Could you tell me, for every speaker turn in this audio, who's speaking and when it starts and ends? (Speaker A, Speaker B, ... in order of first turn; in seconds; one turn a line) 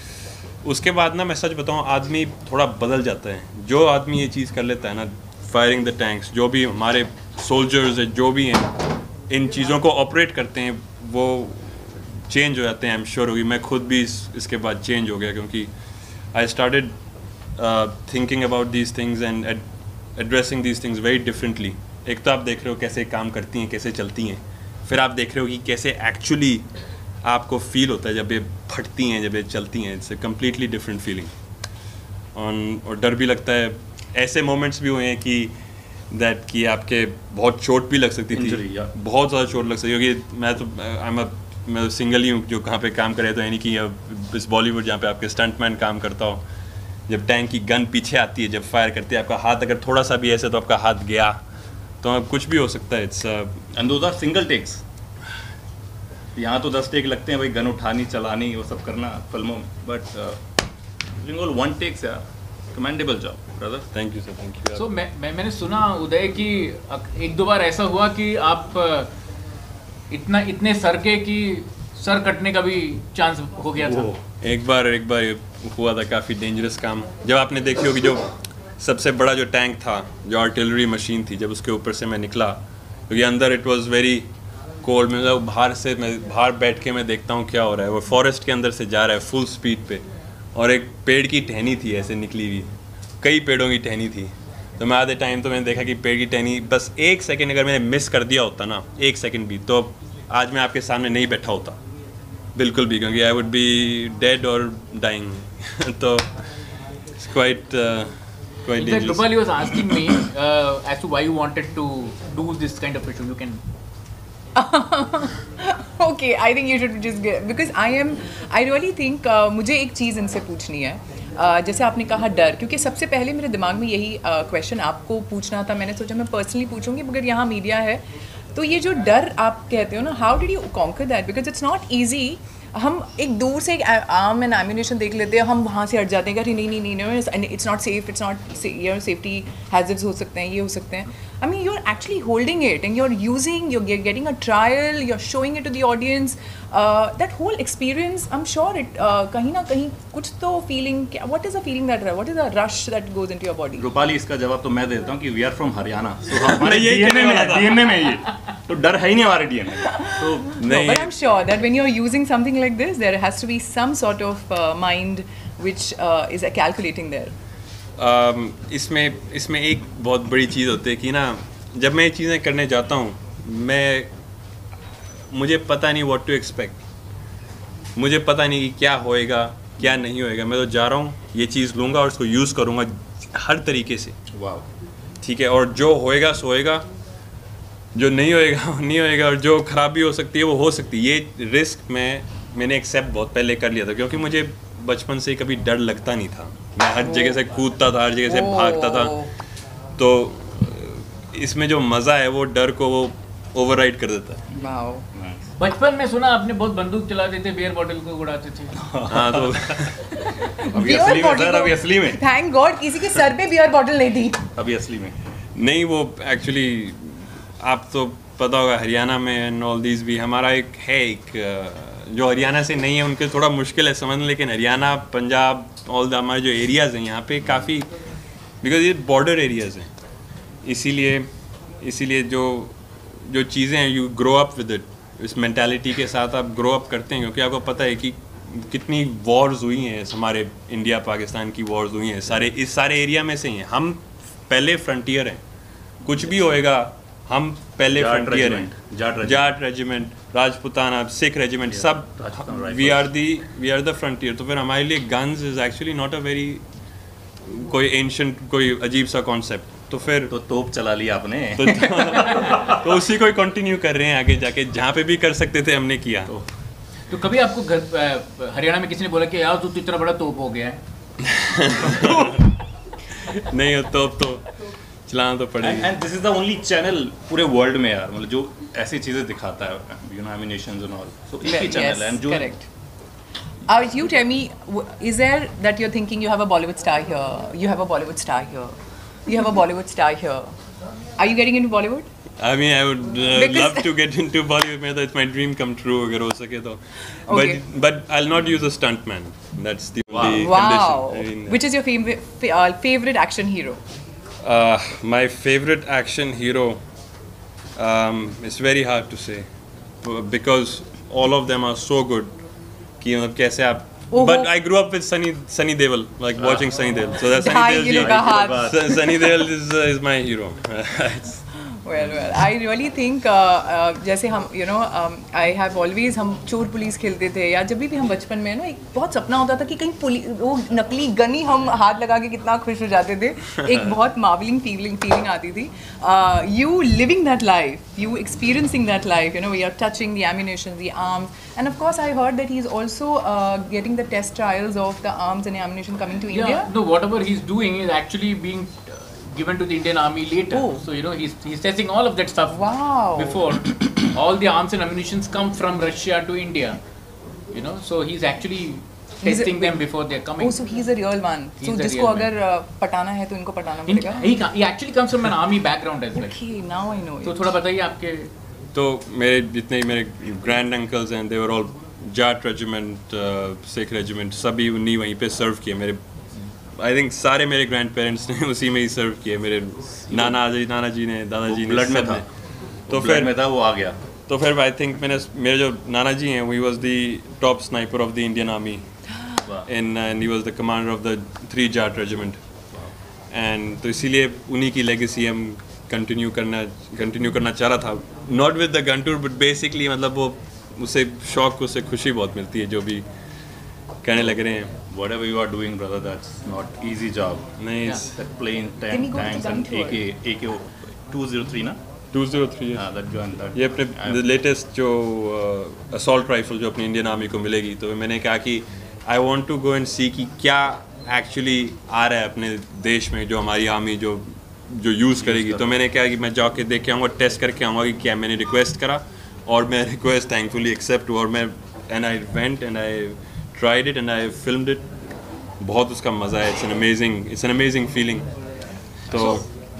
Speaker A: 0.6-8.7
Speaker A: 9.3-15.7
Speaker A: 16.3-16.9
Speaker A: 17.6-19.6
Speaker A: 20.1-26.6
Speaker A: 27.2-31.3
Speaker A: 32.3-35.5
Speaker A: 36.1-46.4
Speaker B: 38.3-38.9
Speaker A: 47.1-51.4
Speaker A: 52.0-53.6
Speaker B: 53.7-54.8
Speaker B: 56.4-60.5
Speaker B: 61.1-63.9
Speaker A: 63.9-64.8
Speaker C: 64.8-69.1
Speaker C: 70.1-74.1
Speaker B: 73.8-74.2
Speaker A: 74.4-84.3
Speaker A: 84.8-90.0
Speaker A: 90.5-92.7
Speaker A: 93.2-101.8
Speaker A: 102.5-106.3
Speaker A: 107.2-108.1
Speaker A: 108.6-109.9
Speaker C: 108.8-113.6
Speaker D: 114.5-153.8
Speaker B: 153.7-160.6
Speaker A: 156.3-158.0
Speaker D: 159.9-167.3
Speaker A: 160.6-161.1
Speaker A: 168.0-174.1
Speaker A: 175.3-176.8
Speaker A: 177.9-184.1
Speaker B: 184.3-184.7
Speaker A: 185.2-186.8
Speaker A: 187.9-199.3
Speaker D: 197.0-197.4
Speaker D: 198.2-199.3
Speaker A: 199.9-204.4
Speaker D: 204.6-205.1
Speaker B: 205.1-205.5
Speaker C: 205.6-208.8
Speaker B: 208.8-210.0
Speaker A: 209.1-209.9
Speaker B: 210.6-212.2
Speaker D: 210.6-214.4
Speaker B: 214.5-215.1
Speaker A: 215.6-227.9
Speaker A: 228.6-229.9
Speaker A: 230.6-231.3
Speaker A: 231.8-232.7
Speaker A: 233.2-245.4
Speaker A: 246.0-248.7
Speaker B: 247.9-249.4
Speaker A: 249.2-256.6
Speaker B: 251.7-253.1
Speaker A: 257.4-260.3
Speaker B: 260.3-262.8
Speaker A: 261.6-266.3
Speaker C: 267.1-270.8
Speaker A: 271.2-272.4
Speaker A: 273.1-274.5
Speaker A: 275.1-275.9
Speaker B: 275.6-282.5
Speaker D: 281.4-282.6
Speaker D: 283.7-290.5
Speaker D: 291.2-292.1
Speaker A: 292.4-301.6
Speaker D: 293.3-293.9
Speaker D: 297.3-297.6
Speaker B: 300.1-300.5
Speaker D: 300.3-303.8
Speaker A: 304.4-306.8
Speaker A: 307.8-309.5
Speaker A: 310.0-312.3
Speaker A: 313.0-321.4
Speaker D: 314.1-314.5
Speaker B: 316.4-316.7
Speaker D: 317.3-319.4
Speaker B: 317.8-319.0
Speaker D: 321.7-346.7
Speaker C: 346.3-356.8
Speaker D: 350.5-350.8
Speaker D: 352.5-353.4
Speaker C: 357.5-360.6
Speaker D: 359.2-359.8
Speaker D: 360.4-364.3
Speaker C: 361.6-362.3
Speaker C: 363.9-366.4
Speaker D: 366.1-367.5
Speaker C: 367.2-368.3
Speaker A: 368.7-376.0
Speaker A: 376.8-382.2
Speaker B: 380.1-380.4
Speaker B: 381.5-382.2
Speaker A: 382.9-383.3
Speaker B: 382.9-384.0
Speaker A: 384.3-388.8
Speaker A: 389.6-392.4
Speaker A: 393.3-403.0
Speaker A: 404.0-404.7
Speaker B: 404.9-407.5
Speaker A: 407.6-408.1
Speaker B: 408.0-411.8
Speaker D: 408.9-410.0
Speaker A: 412.1-412.9
Speaker B: 412.8-414.2
Speaker A: 413.5-434.9
Speaker B: 425.2-425.8
Speaker A: 435.6-438.3
Speaker A: 439.1-439.4
Speaker C: 439.1-439.4